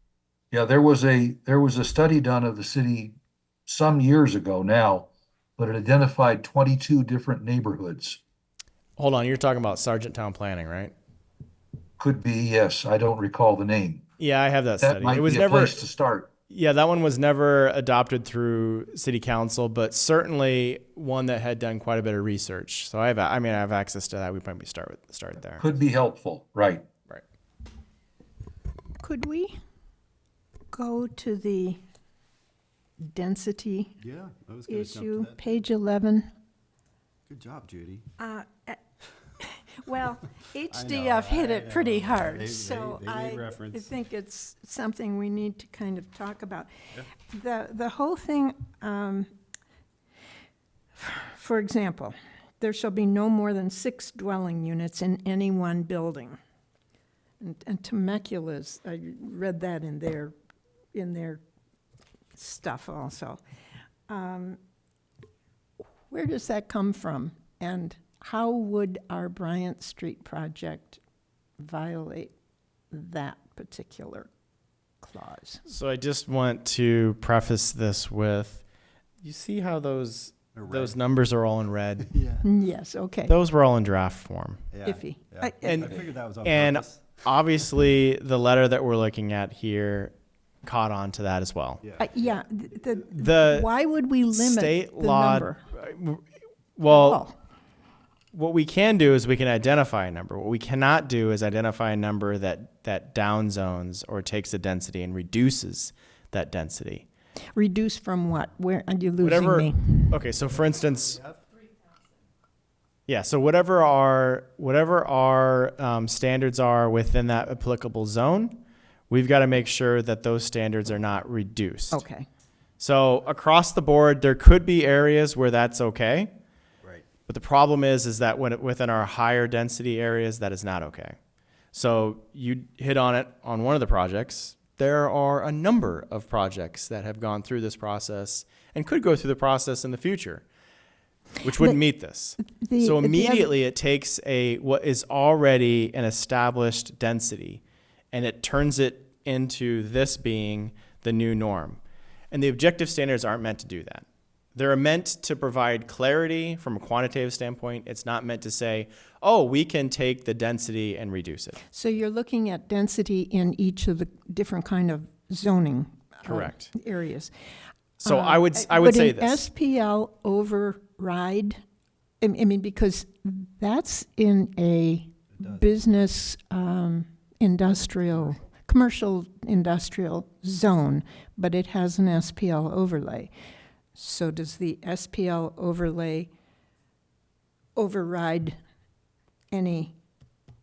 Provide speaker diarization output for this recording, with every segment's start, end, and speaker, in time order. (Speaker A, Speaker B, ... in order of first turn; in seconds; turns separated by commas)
Speaker A: 0.5-8.2, Speaker B: 9.0-10.9, Speaker A: 12.0-14.0, Speaker B: 14.2-15.8, Speaker A: 14.8-16.3, Speaker B: 16.5-25.6, Speaker A: 25.6-26.8, Speaker C: 29.0-29.5, Speaker C: 30.7-31.8, Speaker C: 33.0-33.9, Speaker D: 34.0-35.5, Speaker C: 34.7-36.3, Speaker D: 37.3-38.1, Speaker C: 38.2-38.8, Speaker C: 39.4-46.7, Speaker D: 40.7-43.9, Speaker C: 47.3-49.3, Speaker C: 51.0-56.4, Speaker C: 57.4-60.3, Speaker C: 60.9-61.4, Speaker C: 62.4-63.4, Speaker C: 64.1-64.6, Speaker C: 66.1-71.0, Speaker C: 71.6-72.3, Speaker C: 72.9-74.3, Speaker C: 75.0-75.6, Speaker B: 75.7-78.6, Speaker B: 79.2-82.2, Speaker D: 80.5-81.0, Speaker D: 82.0-82.5, Speaker C: 82.4-83.3, Speaker B: 83.3-84.7, Speaker D: 84.7-87.2, Speaker C: 84.8-85.7, Speaker B: 85.6-91.8, Speaker D: 91.8-92.4, Speaker C: 92.0-95.6, Speaker B: 93.1-93.7, Speaker B: 94.3-96.2, Speaker B: 96.8-97.2, Speaker C: 96.9-97.3, Speaker B: 98.3-107.0, Speaker C: 107.5-110.2, Speaker B: 109.2-111.2, Speaker D: 110.5-111.4, Speaker B: 113.1-118.5, Speaker B: 119.1-122.0, Speaker C: 121.9-122.3, Speaker B: 122.8-126.3, Speaker B: 127.3-131.2, Speaker B: 131.7-140.4, Speaker B: 141.4-147.6, Speaker C: 142.5-143.5, Speaker B: 148.1-151.8, Speaker B: 152.3-161.6, Speaker C: 161.7-167.3, Speaker B: 166.2-166.7, Speaker B: 168.0-169.4, Speaker C: 168.0-171.6, Speaker C: 172.2-183.3, Speaker D: 175.3-175.9, Speaker D: 178.1-178.5, Speaker C: 183.9-186.3, Speaker C: 187.8-188.6, Speaker C: 189.5-189.9